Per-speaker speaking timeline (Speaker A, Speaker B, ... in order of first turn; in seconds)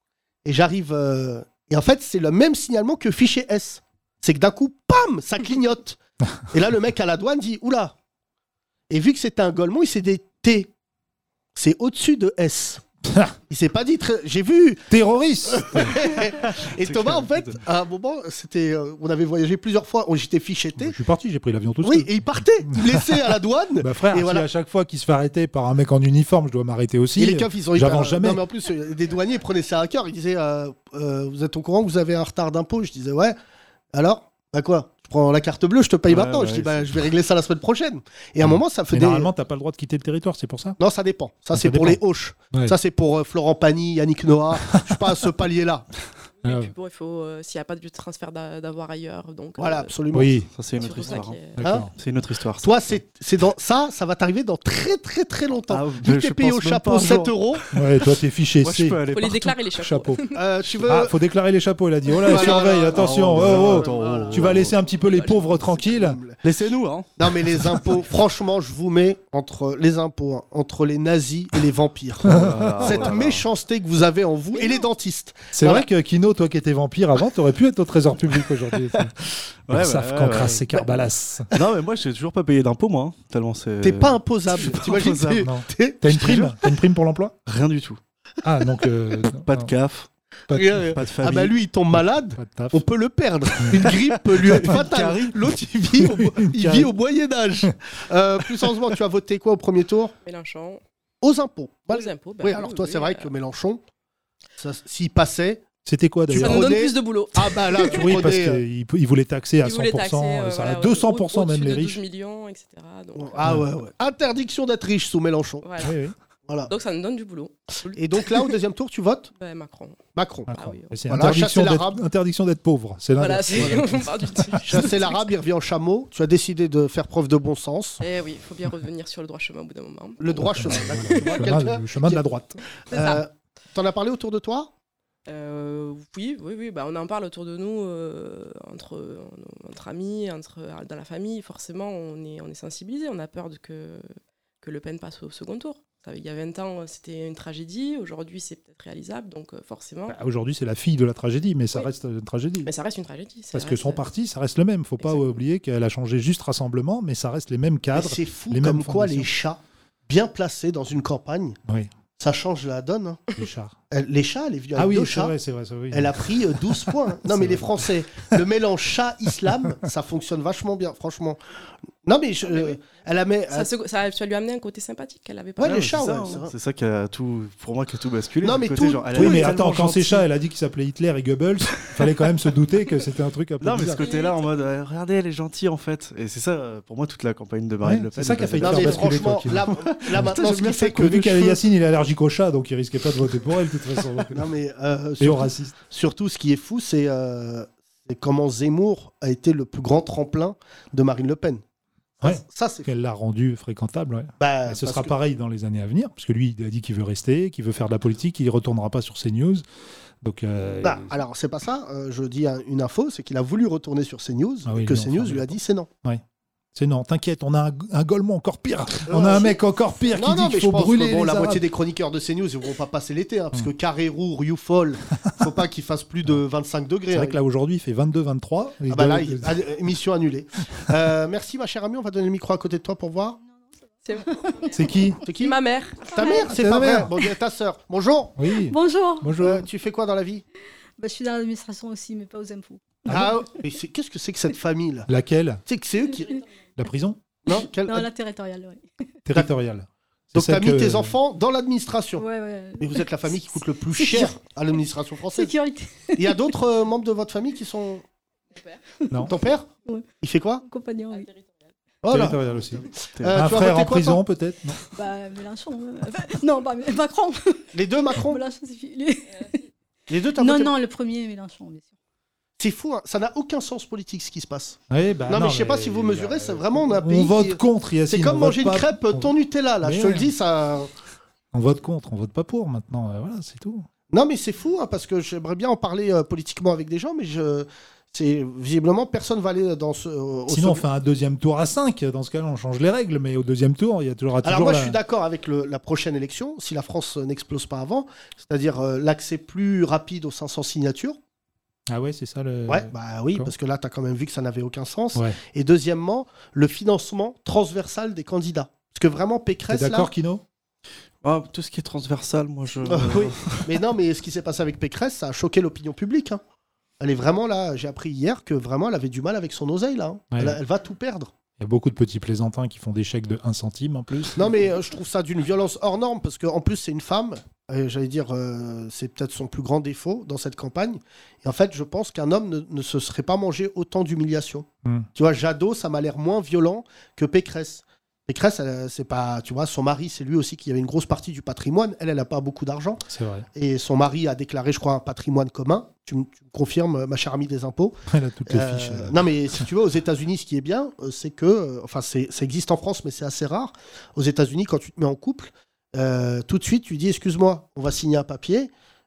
Speaker A: 0.4-6.0, 6.5-7.9, 8.9-10.7, 11.5-12.8, 13.5-14.9, 15.4-21.0, 21.8-24.4, 27.2-33.4, 33.9-39.3, 40.8-45.9, 49.6-51.9, 52.6-57.6, 60.3-61.1, 62.2-64.7, 65.2-66.4, 67.2-75.9, 83.8-86.4, 90.5-100.1, 101.2-103.8, 104.6-105.6, 106.3-108.6, 113.2-115.7, 116.5-116.7, 117.9-119.3, 120.1-120.5, 121.1-122.0, 124.6-128.0, 130.2-132.3, 132.9-134.7, 157.9-161.6, 162.2-163.2, 163.9-165.3, 165.9-171.4, 172.0-173.7, 175.6-176.5, 178.4-179.6, 188.6-191.6, 194.3-201.6, 202.2-202.9, 204.4-205.1, 210.8-215.9, 219.0-227.4, 228.9-233.4, 235.2-238.4, 239.4-240.4, 243.1-245.1, 245.7-246.3, 247.4-248.1, 250.3-252.2, 252.8-255.5, 256.2-258.0, 259.3-259.7, 260.2-260.6, 262.0-264.2, 267.7-268.4, 270.1-270.7, 272.6-280.9, 284.1-290.8, 294.4-301.2, 302.7-310.1, 312.9-316.4, 317.0-321.3, 324.3-343.0, 343.5-358.7
Speaker B: 14.9-16.0, 20.8-22.4, 23.8-28.4, 38.4-40.8, 41.5-42.0, 46.4-46.7, 50.1-50.5, 51.5-51.9, 57.7-60.2, 60.9-66.2, 72.2-72.9, 75.5-79.1, 79.7-81.5, 85.3-87.3, 88.4-89.7, 90.5-90.9, 92.3-92.8, 96.0-96.8, 105.8-106.8, 107.9-112.0, 113.4-113.7, 115.8-116.1, 120.5-124.4, 130.5-132.6, 150.1-152.7, 153.5-159.3, 163.3-163.7, 164.8-167.8, 179.1-184.0, 187.8-194.4, 195.2-195.7, 202.2-209.6, 210.2-211.2, 214.7-216.2, 216.7-221.6, 227.1-229.6, 234.7-235.2, 236.4-237.1, 238.4-239.7, 243.1-243.3, 245.1-245.6, 246.8-247.2, 249.2-251.2, 262.1-264.8, 274.9-280.3, 281.5-283.9, 290.5-295.0, 301.9-303.5, 309.7-310.4, 320.3-320.6, 321.6-324.4, 343.1-343.4, 348.1-349.6
Speaker C: 16.6-17.6, 36.1-36.9, 50.5-53.0, 55.7-57.5, 58.6-59.6, 62.4-64.8, 66.4-67.6, 72.2-73.4, 79.7-80.9, 81.5-85.5, 86.0-86.5, 87.5-88.0, 89.3-90.1, 90.9-91.5, 94.3-95.5, 175.6-180.2, 183.6-191.5, 311.2-313.7
Speaker D: 46.4-49.9, 50.8-51.5, 59.1-60.4, 65.0-65.7, 100.2-100.8, 101.9-103.3, 106.3-108.1, 109.6-113.4, 115.6-116.0, 116.7-118.5, 119.4-120.9, 123.2-125.3, 128.0-131.4, 132.9-133.2, 135.3-144.1, 144.6-150.2, 152.6-154.0, 155.0-155.3, 173.5-176.0, 184.0-184.4, 234.0-234.8, 235.4-236.2
Speaker E: 234.2-234.6, 236.1-236.5, 238.6-239.4, 241.0-243.3, 247.8-248.8, 252.2-254.3, 255.3-256.5, 259.1-260.1, 260.6-261.3, 264.9-269.5, 270.3-271.9